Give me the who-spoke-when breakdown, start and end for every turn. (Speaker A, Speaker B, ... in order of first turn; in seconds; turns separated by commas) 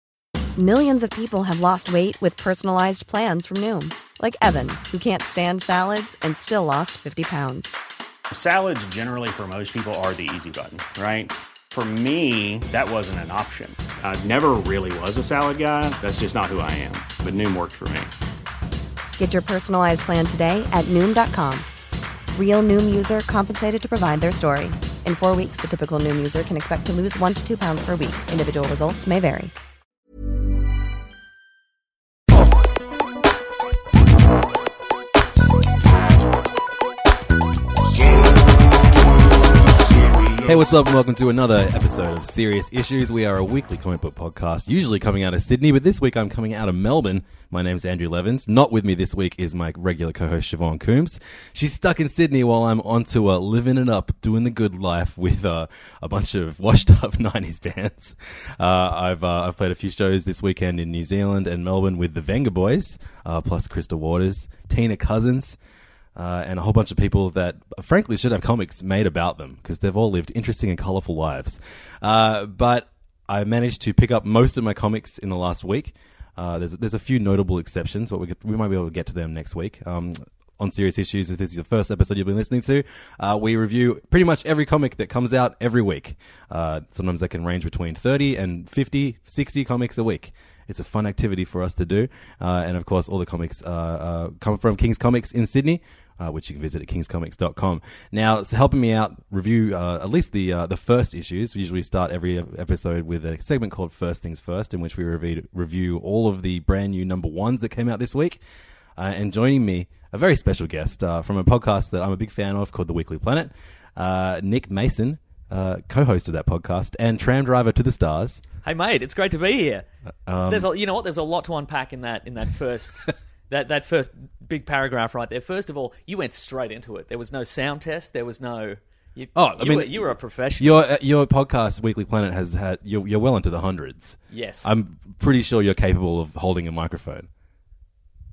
Speaker A: 0.6-7.8, Speaker B: 8.3-18.1, Speaker A: 19.2-21.7, Speaker A: 22.4-29.5, Speaker C: 40.4-65.6, Speaker C: 66.2-108.4, Speaker C: 109.0-118.4, Speaker D: 118.6-119.9, Speaker C: 120.3-120.7, Speaker D: 120.5-130.9, Speaker C: 129.3-137.3, Speaker D: 134.3-134.7